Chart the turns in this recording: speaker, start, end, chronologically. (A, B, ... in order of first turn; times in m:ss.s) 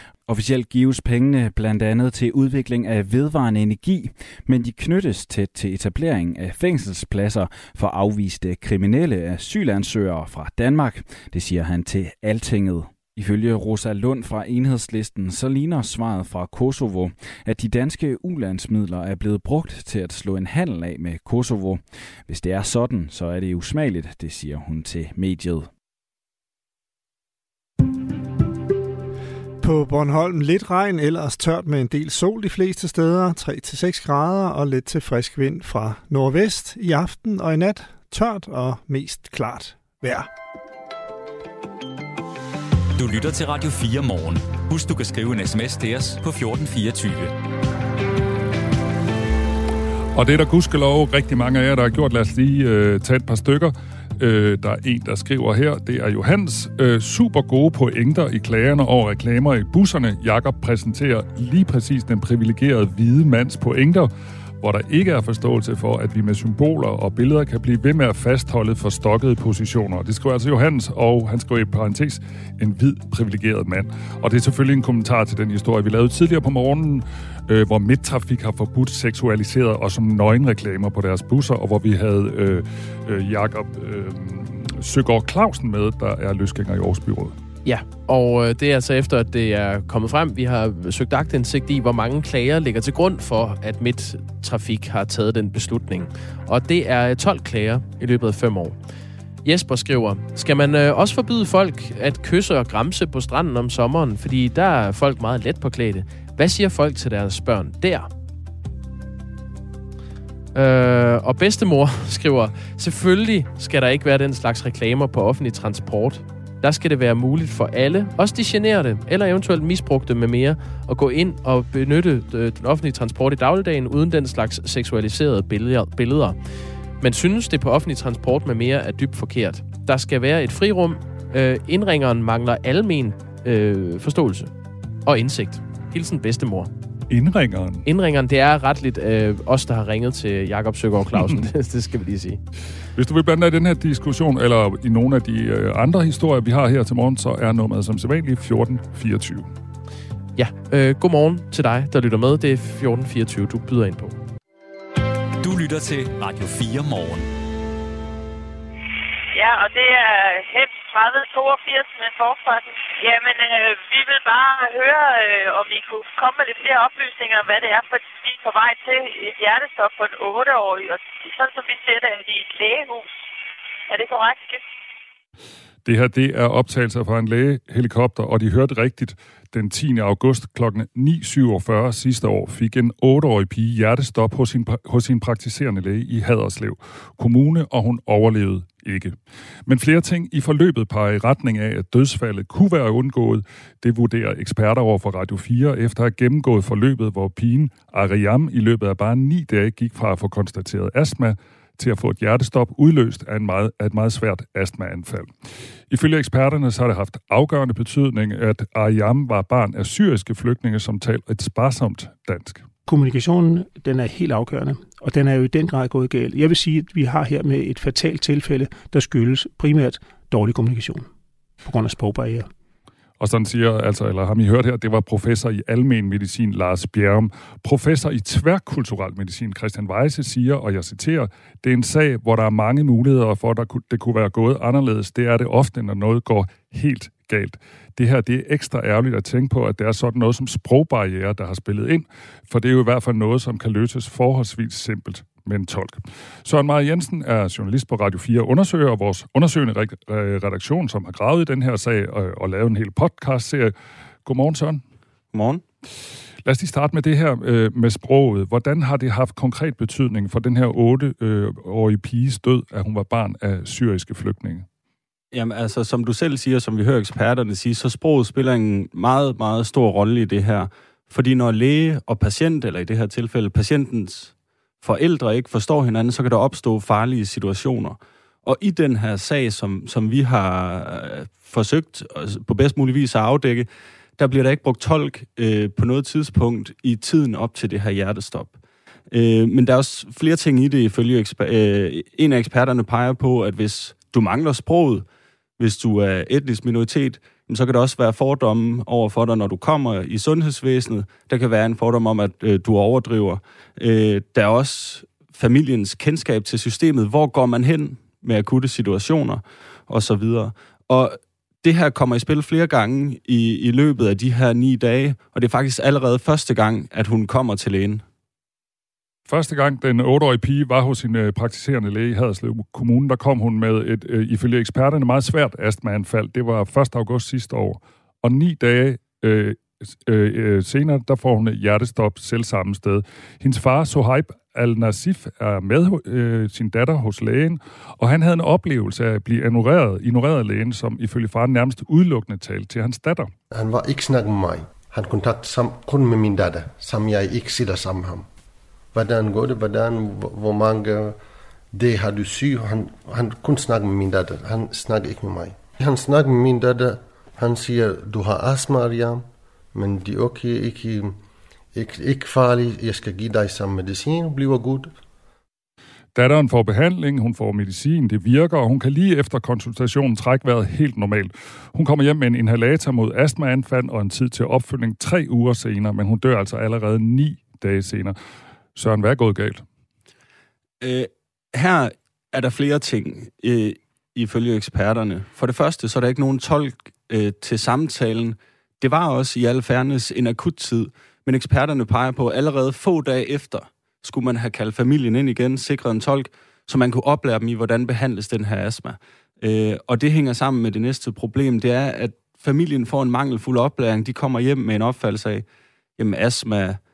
0:00.3-0:25.7 A
0:29.6-0:40.3 B
0:43.0-0:47.3 C
0:50.2-1:04.1 D
1:04.6-1:27.4 D
1:27.6-1:38.8 E
1:39.4-1:48.1 E
1:50.6-2:06.4 E
2:07.0-2:14.5 E
2:15.1-2:16.7 E
2:17.1-2:17.8 D
2:17.8-2:22.4 E
2:23.0-2:29.5 D
2:30.4-2:34.2 E
2:35.4-2:37.3 C
2:39.3-2:53.1 F
2:53.9-2:54.6 F
2:55.8-3:25.3 D
3:25.9-3:32.6 D
3:32.9-3:41.1 G
3:41.6-3:42.5 G
3:43.2-4:13.7 D
4:14.2-4:14.8 D
4:15.3-4:15.6 H
4:16.4-4:24.7 D
4:25.3-4:43.7 H
4:44.2-4:48.6 H
4:49.1-4:55.0 H
4:55.6-5:18.0 H
5:19.3-5:43.3 D
5:43.5-5:48.3 I
5:48.9-5:51.2 I
5:51.7-6:01.2 I
6:01.7-6:04.9 I
6:06.2-6:18.2 D
6:18.8-6:19.6 D
6:20.8-6:45.4 H
6:46.0-6:46.8 H